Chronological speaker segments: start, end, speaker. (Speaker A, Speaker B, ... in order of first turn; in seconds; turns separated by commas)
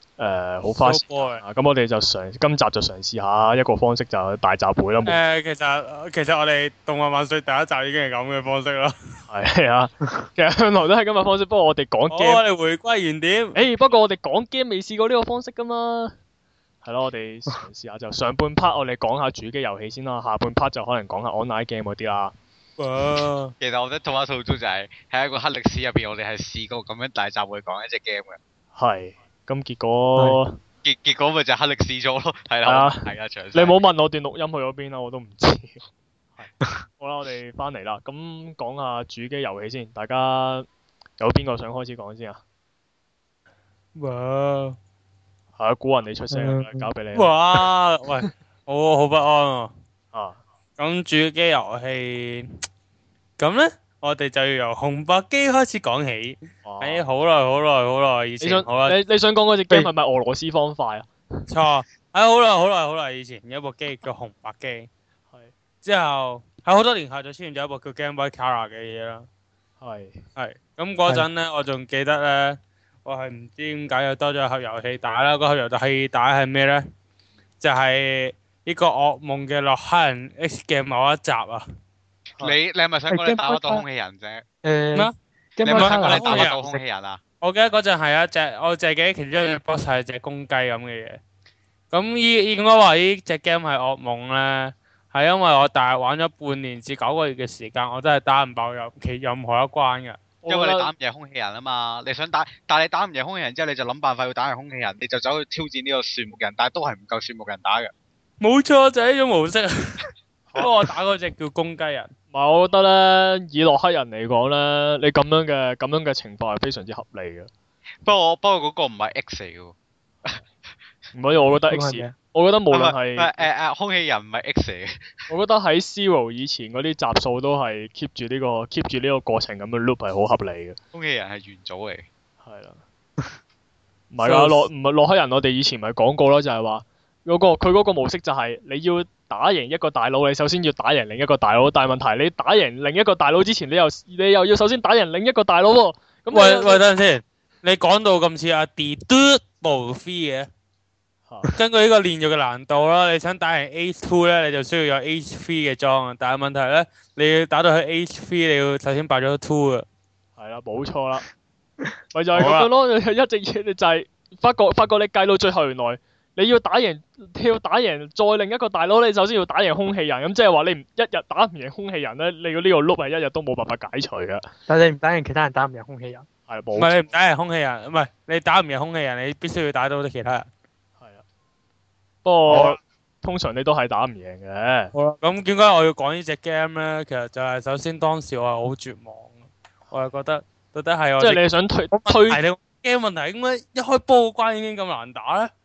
Speaker A: 0.2-5.2, Speaker B: 0.7-1.4, Speaker B: 5.0-8.9, Speaker A: 9.3-12.4, Speaker B: 12.1-13.6, Speaker A: 13.6-16.1, Speaker A: 16.8-22.3, Speaker B: 22.8-23.5, Speaker C: 23.6-28.4, Speaker A: 28.8-30.6, Speaker C: 30.8-33.8, Speaker A: 32.7-35.8, Speaker A: 36.4-40.7, Speaker A: 41.2-42.4, Speaker B: 44.0-44.8, Speaker A: 45.6-47.3, Speaker D: 46.3-46.9, Speaker B: 47.1-49.7, Speaker A: 50.1-50.4, Speaker B: 50.8-52.5, Speaker B: 53.4-59.0, Speaker A: 56.6-57.0, Speaker A: 58.4-61.1, Speaker B: 61.5-64.9, Speaker B: 65.8-69.3, Speaker A: 69.8-70.2, Speaker B: 70.4-76.8, Speaker B: 77.6-81.7, Speaker C: 82.4-84.4, Speaker D: 83.1-83.8, Speaker D: 84.6-86.8, Speaker C: 85.6-87.2, Speaker B: 85.7-86.6, Speaker B: 87.4-91.2, Speaker B: 91.9-100.2, Speaker A: 100.4-100.9, Speaker C: 100.5-107.9, Speaker B: 108.4-110.0, Speaker B: 110.6-112.1, Speaker A: 112.3-117.5, Speaker C: 118.0-120.4, Speaker A: 121.1-123.3, Speaker D: 121.7-122.2, Speaker C: 122.7-125.3, Speaker A: 125.3-130.8, Speaker C: 130.9-132.1, Speaker A: 132.4-132.8, Speaker A: 134.1-146.8, Speaker B: 134.2-134.7, Speaker B: 146.3-150.5, Speaker B: 151.6-159.9, Speaker A: 160.4-161.2, Speaker A: 162.1-174.4, Speaker B: 162.4-162.7, Speaker D: 174.7-176.3, Speaker A: 176.5-177.1, Speaker B: 176.8-180.5, Speaker A: 181.0-181.2, Speaker A: 182.2-184.9, Speaker B: 182.5-182.8, Speaker B: 184.9-189.3, Speaker B: 189.9-191.4, Speaker A: 191.2-192.4, Speaker B: 192.1-195.5